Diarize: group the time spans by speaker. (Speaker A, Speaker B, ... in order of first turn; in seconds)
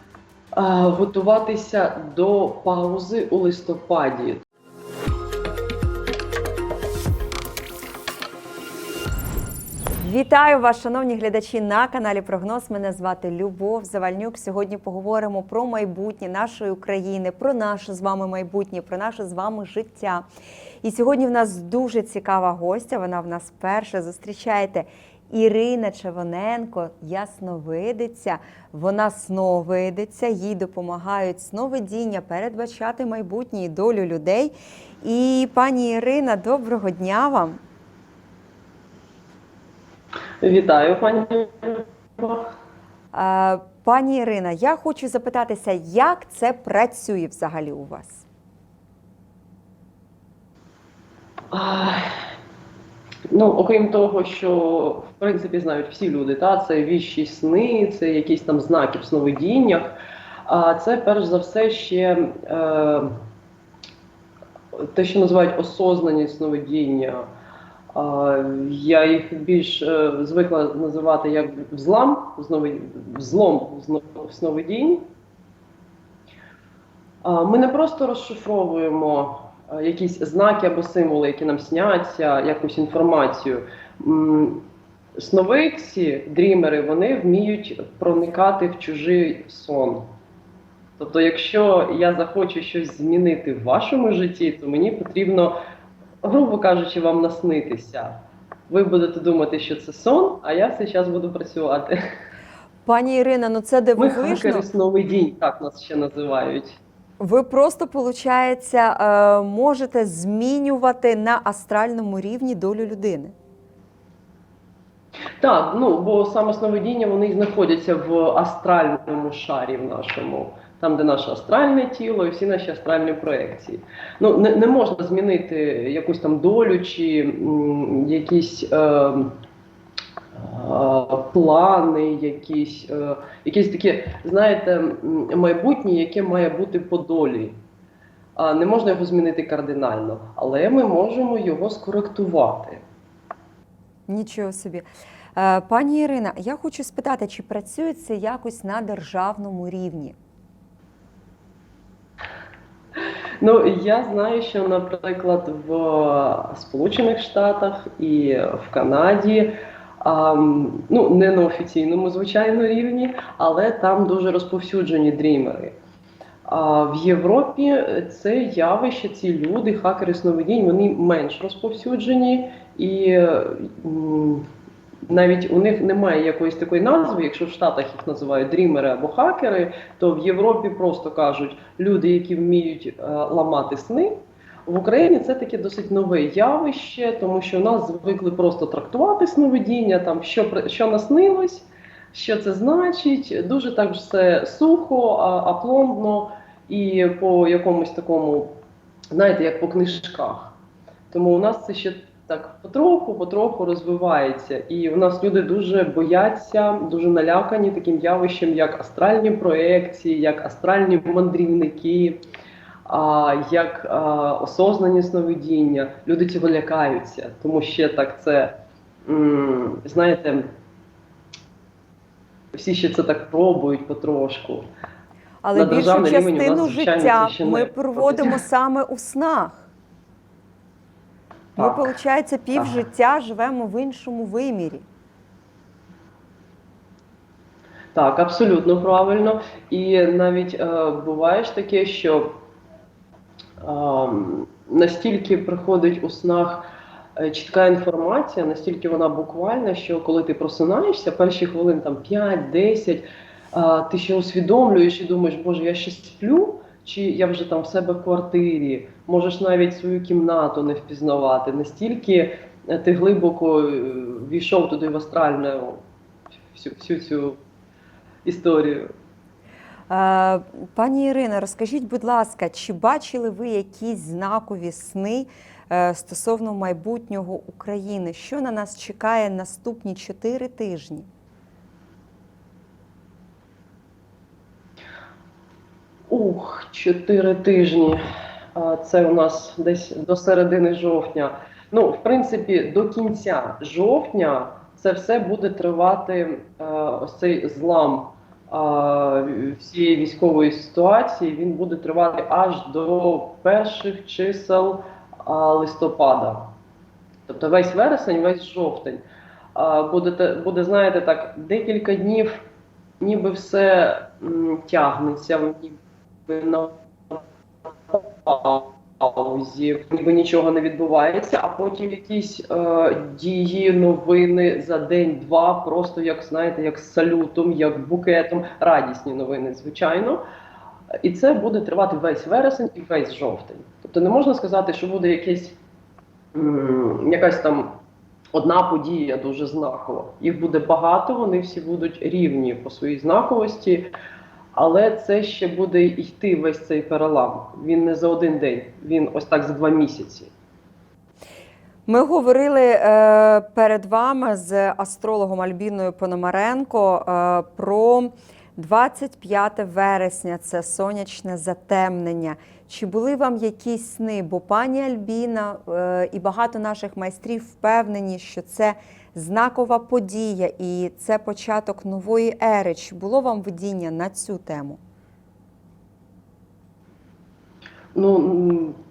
Speaker A: 0.6-4.4, 40.4-42.5, 51.5-52.1, 53.3-63.2, 64.8-67.3, 67.9-75.0, 77.2-84.6, 85.2-90.1, 91.0-95.6, 96.2-98.2, 98.7-102.0, 104.0-106.8, 115.4-129.4, 130.3-137.6, 138.4-142.8, 153.4-165.8, 166.5-174.5, 175.1-184.2, 184.7-198.6, 199.1-200.6, 201.1-212.2, 212.9-220.5, 222.5-224.7, 225.5-228.4, 231.6-231.9, 237.9-242.3, 243.6-246.7, 247.2-265.8, 266.5-267.4, 268.2-268.9, 286.1-288.0, 288.6-306.5, 307.3-309.0, 309.6-312.4, 313.0-317.2, 317.9-330.2, 331.0-335.6, 336.3-337.8, 338.3-343.9, 344.6-350.3, 377.9-378.8
Speaker B: 10.0-20.2, 20.8-37.6, 43.1-48.3, 102.9-104.7, 107.2-113.3, 144.1-150.2, 225.4-229.7, 231.6-234.9, 269.9-281.1, 351.9-374.8